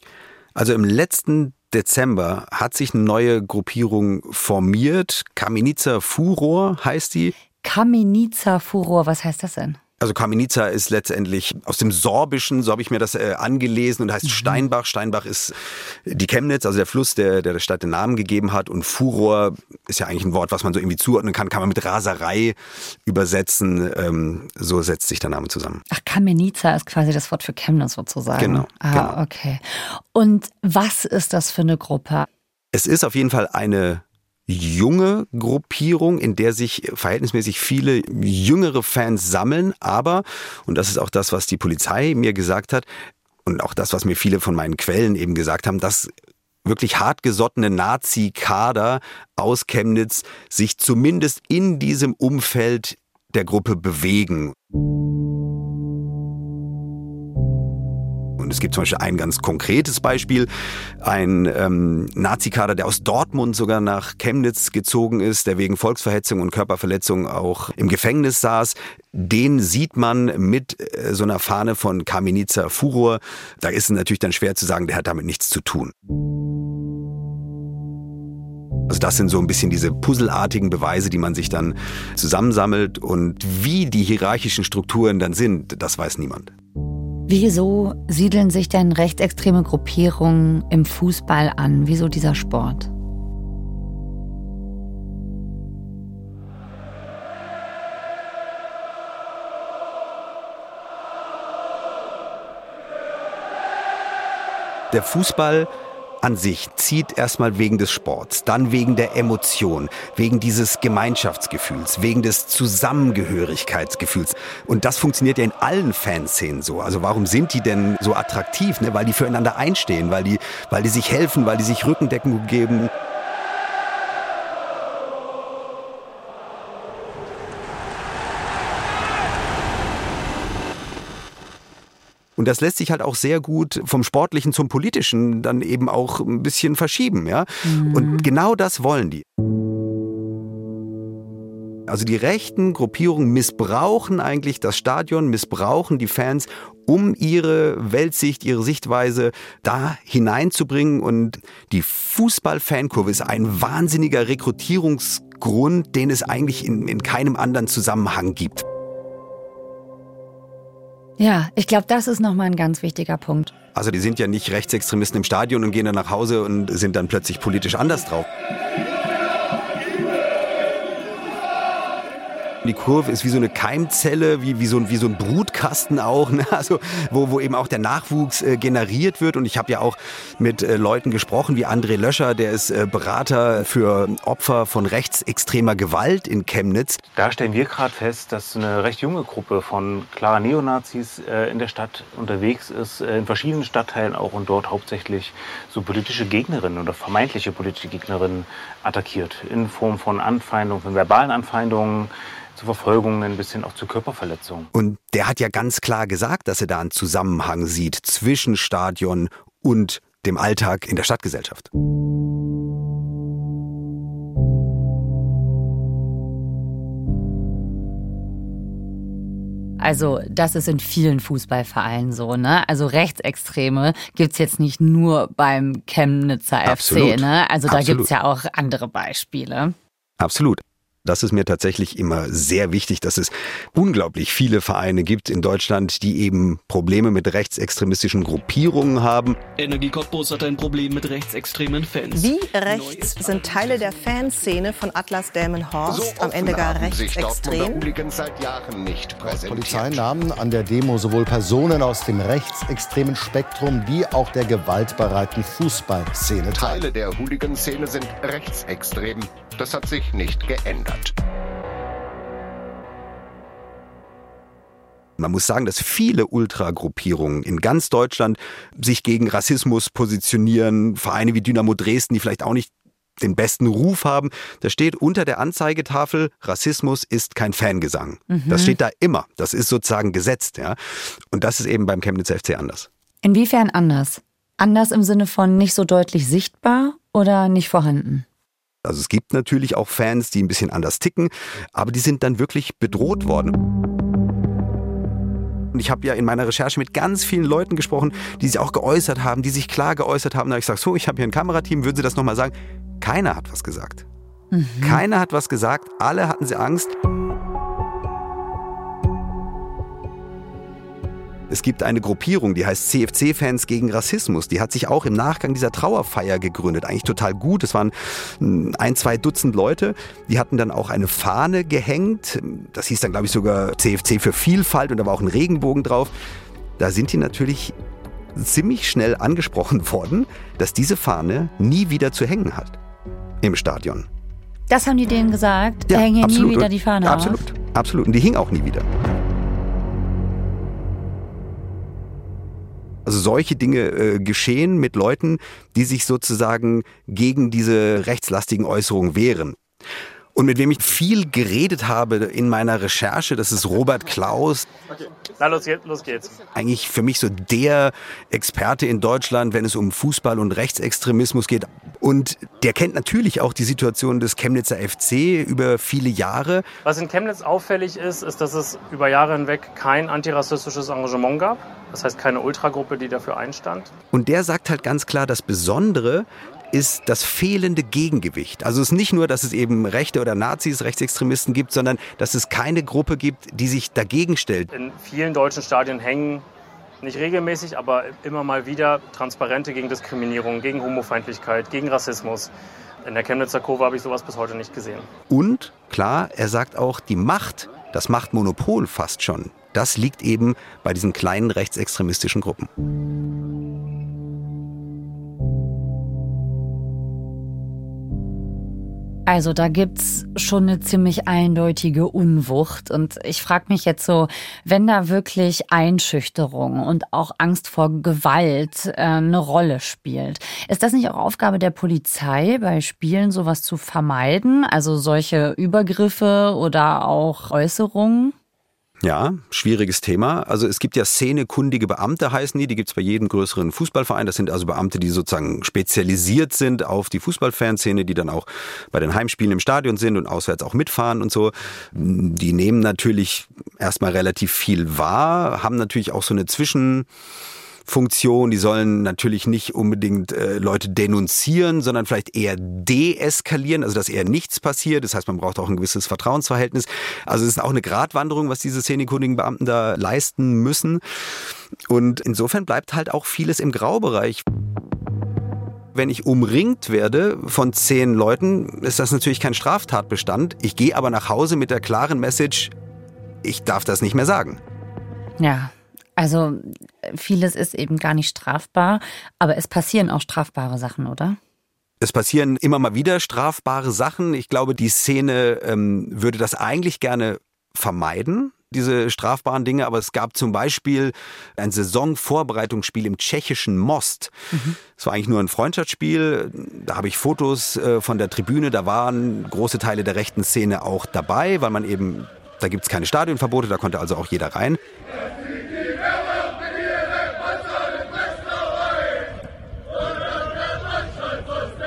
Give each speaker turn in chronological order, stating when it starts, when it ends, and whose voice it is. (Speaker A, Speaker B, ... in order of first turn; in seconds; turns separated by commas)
Speaker A: 0.6-7.3, Speaker B: 7.6-9.8, Speaker A: 10.0-25.8, Speaker B: 25.9-32.3, Speaker A: 28.4-29.2, Speaker A: 32.7-42.9, Speaker A: 43.5-46.1, Speaker A: 46.6-54.5, Speaker A: 58.4-60.5, Speaker A: 61.0-75.9, Speaker A: 78.9-86.5, Speaker B: 87.3-92.9, Speaker A: 104.9-105.7, Speaker A: 106.2-122.9, Speaker A: 132.4-139.2, Speaker B: 137.6-138.3, Speaker A: 141.9-158.7, Speaker B: 161.2-163.5, Speaker A: 163.7-168.3, Speaker A: 172.6-187.0, Speaker C: 187.1-204.7, Speaker A: 204.7-211.7, Speaker B: 219.8-229.8, Speaker A: 226.7-228.1, Speaker A: 230.2-239.4, Speaker D: 239.6-242.1, Speaker E: 242.1-247.8, Speaker F: 245.8-250.2, Speaker G: 249.2-256.9, Speaker F: 256.5-261.1, Speaker A: 265.2-282.9, Speaker B: 278.3-278.8, Speaker B: 283.2-288.3, Speaker A: 288.8-293.6, Speaker A: 295.7-304.1, Speaker B: 304.5-305.0, Speaker A: 304.8-306.9, Speaker A: 311.5-326.1, Speaker A: 326.8-327.8, Speaker A: 328.3-332.8, Speaker A: 333.4-334.1, Speaker B: 334.7-337.4, Speaker A: 335.9-338.9, Speaker A: 343.1-349.6, Speaker A: 350.4-354.7, Speaker H: 355.4-356.4, Speaker A: 356.6-366.6, Speaker H: 366.9-373.9, Speaker A: 374.1-384.7, Speaker H: 384.7-386.4, Speaker H: 387.0-392.5, Speaker H: 393.0-395.1, Speaker A: 395.3-402.7, Speaker B: 409.3-428.4, Speaker A: 429.0-447.1, Speaker A: 447.9-461.0, Speaker A: 461.9-464.4, Speaker A: 465.9-472.7, Speaker A: 473.4-474.6, Speaker B: 475.4-481.4, Speaker A: 482.0-494.4, Speaker B: 494.5-494.8, Speaker A: 494.9-504.8